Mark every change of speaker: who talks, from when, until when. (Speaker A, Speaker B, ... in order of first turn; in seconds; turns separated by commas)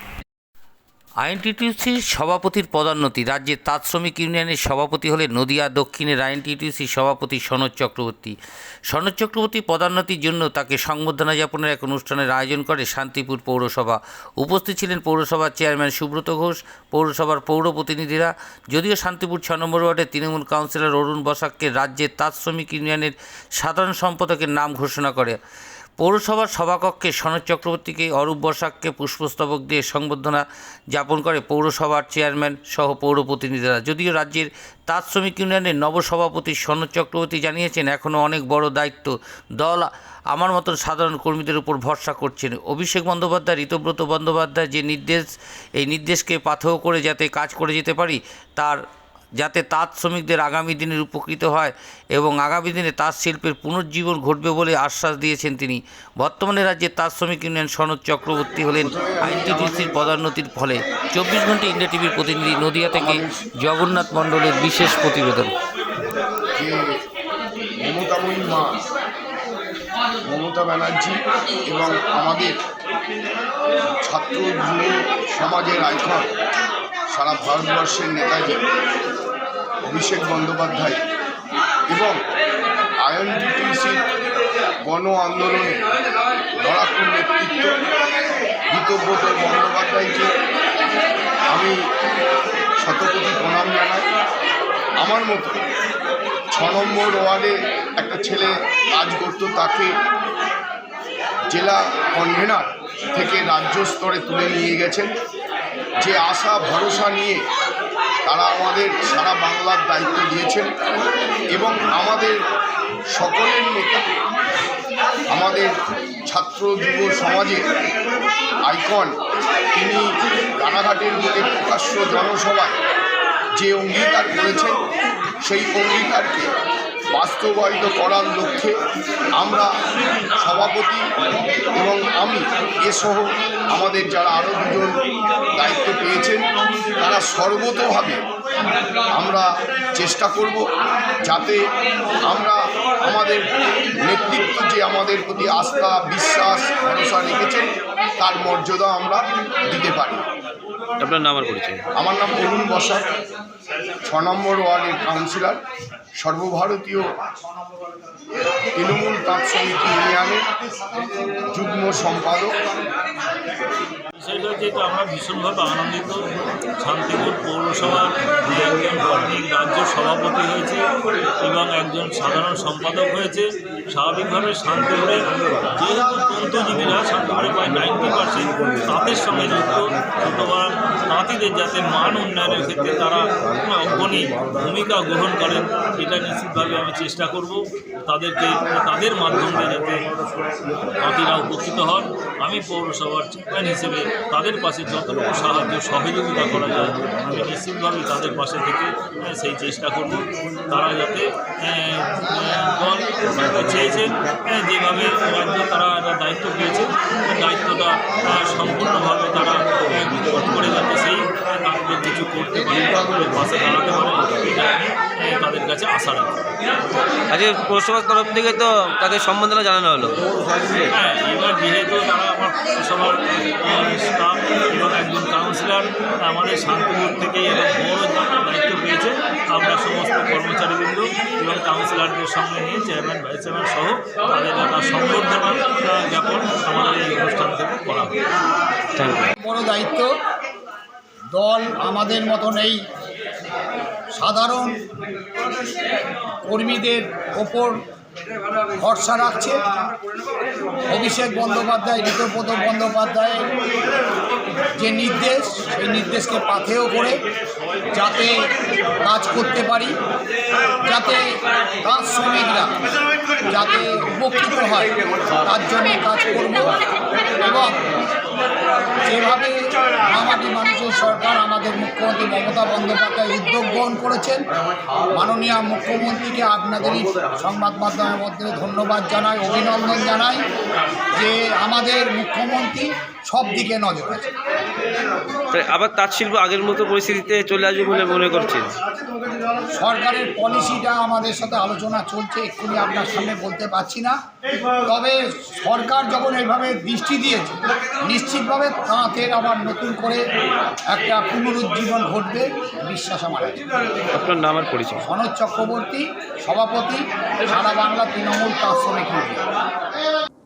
Speaker A: 1.2-8.3, Speaker A: 8.9-25.4, Speaker A: 26.0-45.3, Speaker A: 45.8-48.8, Speaker A: 49.4-65.5, Speaker B: 58.8-60.1, Speaker B: 62.9-63.3, Speaker B: 67.8-68.8, Speaker B: 70.3-71.2, Speaker B: 71.7-72.5, Speaker B: 74.1-76.3, Speaker B: 77.1-78.6, Speaker B: 79.9-81.0, Speaker B: 81.9-82.2, Speaker B: 83.0-84.0, Speaker B: 84.9-85.8, Speaker B: 86.6-87.8, Speaker B: 88.7-90.3, Speaker B: 91.5-91.8, Speaker B: 92.8-94.1, Speaker B: 95.0-95.6, Speaker B: 96.5-99.9, Speaker B: 101.5-105.1, Speaker B: 106.0-107.4, Speaker B: 108.3-110.7, Speaker B: 111.6-112.4, Speaker B: 113.1-114.0, Speaker B: 115.3-115.7, Speaker B: 116.3-117.6, Speaker B: 118.7-119.1, Speaker B: 119.7-120.0, Speaker B: 120.6-122.8, Speaker B: 123.6-124.8, Speaker B: 125.4-126.5, Speaker B: 127.1-128.8, Speaker B: 129.4-129.7, Speaker B: 130.3-131.0, Speaker B: 131.8-135.0, Speaker B: 135.6-136.5, Speaker B: 137.0-138.2, Speaker B: 139.2-140.6, Speaker B: 141.3-141.6, Speaker B: 142.3-143.5, Speaker B: 144.1-150.2, Speaker C: 151.0-151.8, Speaker B: 152.0-153.1, Speaker B: 154.1-155.6, Speaker B: 156.2-157.1, Speaker B: 158.8-160.4, Speaker B: 161.5-162.6, Speaker D: 164.2-166.2, Speaker D: 166.8-170.8, Speaker D: 171.4-190.1, Speaker D: 191.0-216.4, Speaker C: 217.3-220.2, Speaker D: 220.9-238.1, Speaker C: 239.0-239.3, Speaker E: 239.4-240.1, Speaker E: 241.3-242.8, Speaker E: 244.2-244.8, Speaker E: 246.4-247.8, Speaker E: 248.8-249.7, Speaker E: 250.9-253.4, Speaker E: 254.8-257.2, Speaker E: 257.9-258.4, Speaker E: 259.0-259.9, Speaker E: 260.9-261.2, Speaker E: 261.8-262.7, Speaker E: 263.5-264.9, Speaker E: 265.5-266.8, Speaker E: 267.4-267.8, Speaker E: 269.0-269.6, Speaker E: 270.1-274.4, Speaker E: 275.1-280.4, Speaker E: 281.2-284.3, Speaker C: 285.5-288.7, Speaker E: 289.8-294.2, Speaker E: 294.9-300.2, Speaker E: 300.9-303.6, Speaker C: 304.1-305.0, Speaker E: 305.0-309.4